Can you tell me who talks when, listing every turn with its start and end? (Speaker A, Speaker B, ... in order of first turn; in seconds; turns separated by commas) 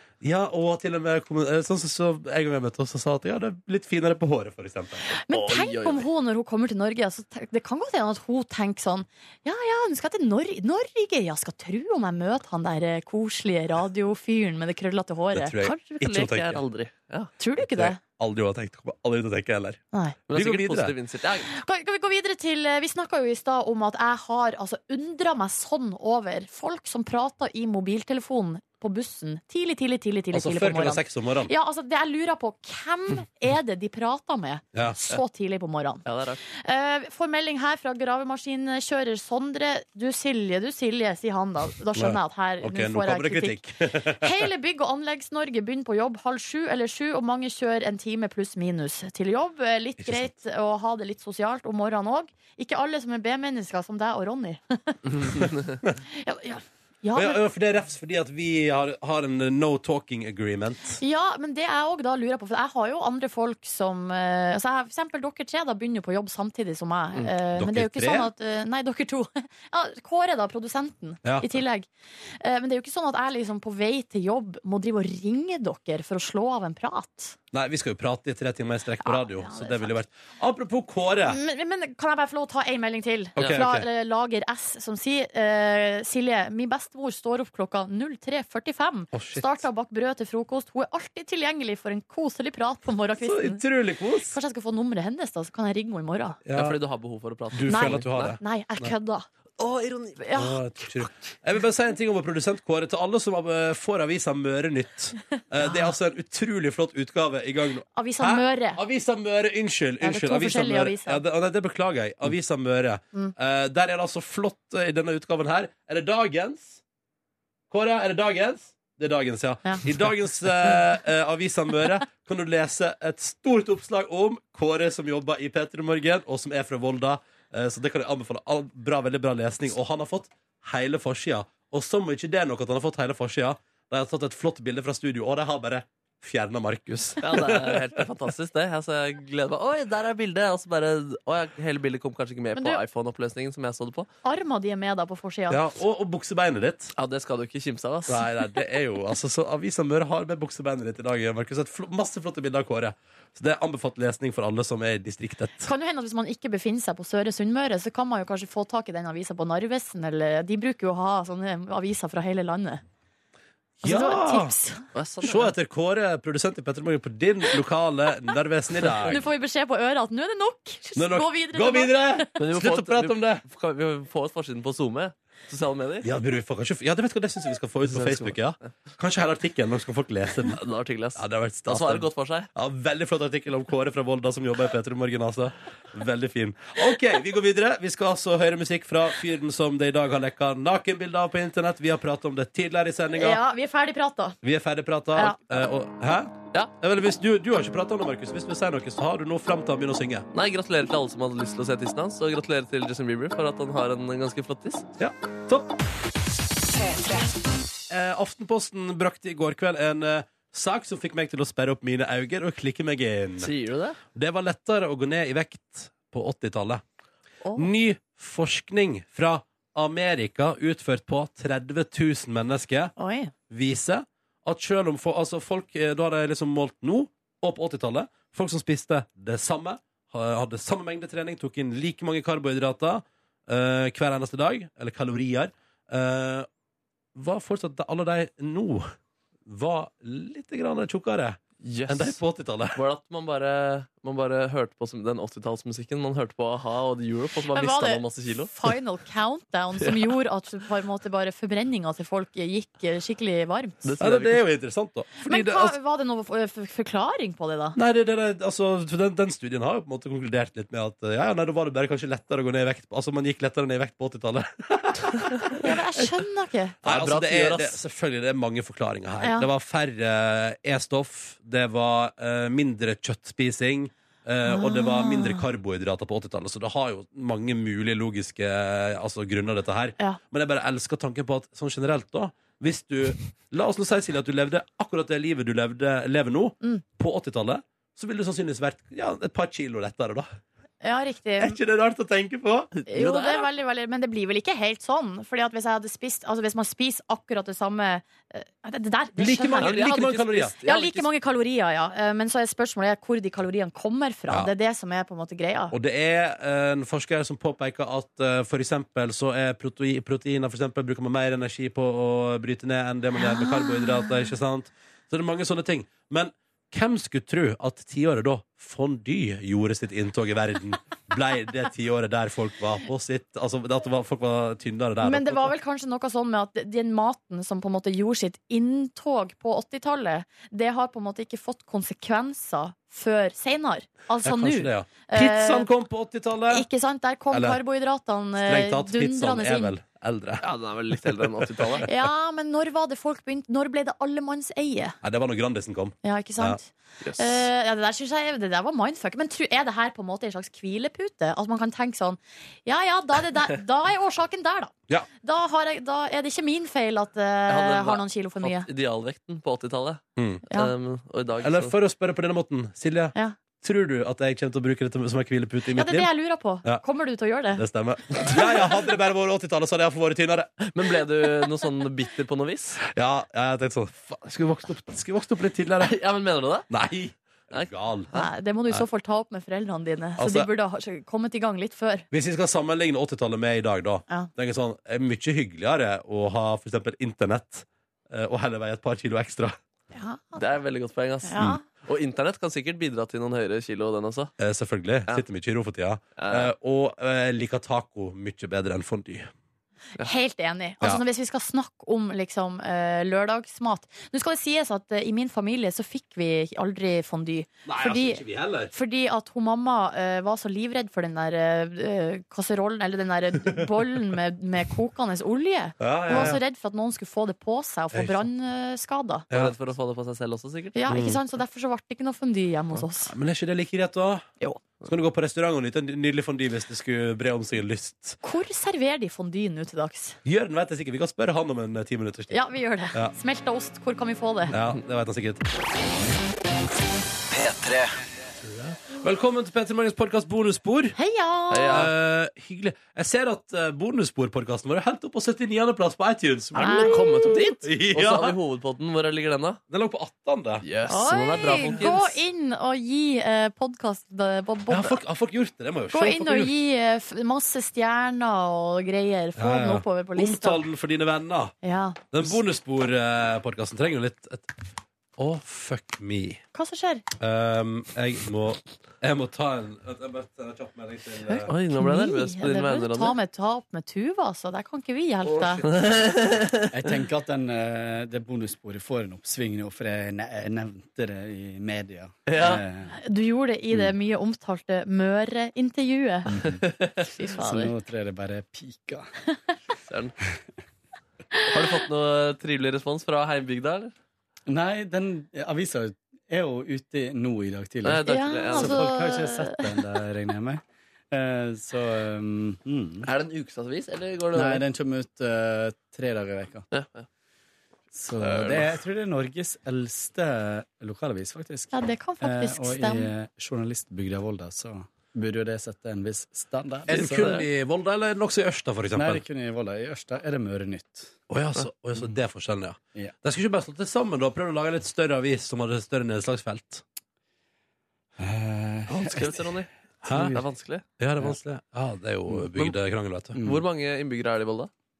Speaker A: 0.2-5.1, Speaker B: 5.1-16.0, Speaker C: 5.3-6.1, Speaker A: 15.3-16.6, Speaker C: 15.9-17.3, Speaker B: 17.4-18.0, Speaker A: 17.6-20.9, Speaker C: 20.3-21.5, Speaker B: 21.5-55.5, Speaker A: 30.3-31.5, Speaker C: 36.0-36.4, Speaker A: 41.9-44.5, Speaker A: 50.0-50.3, Speaker B: 56.1-57.4, Speaker A: 57.1-61.0, Speaker B: 61.0-71.9, Speaker A: 67.5-68.3, Speaker A: 71.2-71.6, Speaker B: 72.4-77.4, Speaker A: 77.5-81.4, Speaker B: 79.0-79.9, Speaker B: 81.2-93.6, Speaker A: 83.4-83.8, Speaker A: 89.1-89.6, Speaker A: 93.2-94.3, Speaker B: 94.3-96.4, Speaker A: 96.4-96.8, Speaker C: 96.5-98.4, Speaker A: 97.5-98.9, Speaker B: 97.7-99.3, Speaker C: 99.6-100.2, Speaker B: 100.2-100.6, Speaker A: 100.3-116.8, Speaker B: 105.6-105.9, Speaker B: 107.9-108.8, Speaker B: 110.0-111.2, Speaker A: 117.7-138.0, Speaker C: 137.2-144.1, Speaker B: 144.2-145.6, Speaker A: 145.5-146.9, Speaker C: 147.0-148.3, Speaker A: 148.1-155.7, Speaker B: 155.6-162.8, Speaker A: 163.8-164.5, Speaker B: 163.8-164.8, Speaker C: 164.9-165.5, Speaker A: 165.2-169.2, Speaker B: 169.0-172.3, Speaker A: 170.9-173.4, Speaker C: 172.4-176.1, Speaker A: 176.0-180.6, Speaker C: 177.9-178.4, Speaker C: 180.5-182.5, Speaker A: 181.2-193.4, Speaker B: 193.1-194.4, Speaker A: 194.4-200.2, Speaker B: 195.2-195.6, Speaker C: 200.3-204.9, Speaker A: 205.0-205.7, Speaker A: 207.9-213.5, Speaker C: 213.4-214.0, Speaker A: 214.1-216.8, Speaker B: 217.4-217.7, Speaker A: 217.6-222.9, Speaker B: 223.0-223.3, Speaker A: 223.5-236.5, Speaker A: 237.1-238.9, Speaker A: 239.4-242.8, Speaker C: 241.6-242.2, Speaker C: 242.7-248.7, Speaker B: 247.5-253.8, Speaker C: 249.8-250.1, Speaker C: 253.8-254.4, Speaker A: 254.0-255.7, Speaker B: 255.2-257.8, Speaker A: 257.7-266.0, Speaker B: 265.6-266.8, Speaker A: 266.8-290.3, Speaker C: 266.8-267.8, Speaker B: 269.2-269.5, Speaker B: 274.4-275.4, Speaker B: 290.8-291.6, Speaker A: 291.4-292.7, Speaker C: 292.7-293.4, Speaker B: 292.9-305.7, Speaker A: 299.2-300.5, Speaker C: 299.6-301.1, Speaker A: 305.7-325.5, Speaker B: 313.3-314.2, Speaker B: 325.0-335.7, Speaker A: 334.2-336.7, Speaker B: 336.5-339.7, Speaker A: 337.3-337.6, Speaker A: 338.4-340.4, Speaker C: 340.4-341.9, Speaker B: 341.8-344.9, Speaker A: 345.0-346.6, Speaker B: 346.0-358.7, Speaker C: 347.0-347.4, Speaker C: 357.5-361.7, Speaker A: 360.2-360.4, Speaker A: 361.4-366.1, Speaker B: 365.7-367.6, Speaker A: 367.6-370.6, Speaker C: 370.7-372.8, Speaker A: 372.9-376.0, Speaker C: 375.8-376.7, Speaker A: 376.7-378.1, Speaker C: 377.5-378.3, Speaker B: 378.1-382.1, Speaker A: 380.2-380.5, Speaker A: 382.1-389.6, Speaker B: 389.9-390.4, Speaker C: 390.4-394.3, Speaker B: 391.2-391.6, Speaker A: 394.4-399.3, Speaker C: 396.1-396.5, Speaker B: 400.0-419.2, Speaker A: 407.6-408.7, Speaker A: 415.8-416.4, Speaker A: 417.9-418.3, Speaker A: 419.3-419.5, Speaker C: 419.3-421.1, Speaker B: 420.7-423.1, Speaker A: 420.9-421.2, Speaker A: 423.1-424.3, Speaker A: 424.8-428.2, Speaker B: 428.2-430.2, Speaker A: 430.2-433.1, Speaker B: 432.3-434.5, Speaker A: 434.5-435.4, Speaker A: 438.4-440.9, Speaker B: 440.9-441.8, Speaker C: 441.5-441.9, Speaker A: 441.7-447.0, Speaker C: 446.5-449.6, Speaker B: 446.6-447.3, Speaker A: 447.6-448.4, Speaker A: 449.7-450.6, Speaker C: 450.6-452.2, Speaker B: 450.9-455.0, Speaker A: 451.6-451.9, Speaker A: 454.7-456.5, Speaker B: 455.9-460.6, Speaker A: 459.4-461.5, Speaker B: 461.6-462.1, Speaker A: 462.1-464.6, Speaker A: 465.2-466.4, Speaker B: 466.5-467.0, Speaker A: 467.2-471.5, Speaker C: 471.5-473.1, Speaker B: 471.7-475.6, Speaker A: 475.2-475.9, Speaker C: 475.6-476.8, Speaker D: 476.7-483.0, Speaker C: 482.3-482.6, Speaker B: 482.9-486.3, Speaker D: 486.3-486.7, Speaker B: 487.0-487.7, Speaker D: 487.4-489.1, Speaker C: 489.9-490.1, Speaker C: 491.5-493.9, Speaker D: 494.5-503.1, Speaker C: 497.8-498.9, Speaker B: 498.1-499.8, Speaker C: 503.0-504.6, Speaker D: 504.3-506.6, Speaker C: 506.7-507.1, Speaker D: 507.9-517.3, Speaker C: 508.2-508.6, Speaker B: 511.7-513.1, Speaker A: 516.9-519.2, Speaker C: 516.9-517.4, Speaker D: 518.9-521.1, Speaker A: 521.3-526.8, Speaker D: 528.2-530.4, Speaker C: 528.9-530.8, Speaker A: 530.0-530.3, Speaker A: 531.0-533.4, Speaker D: 533.3-533.6, Speaker C: 533.4-534.7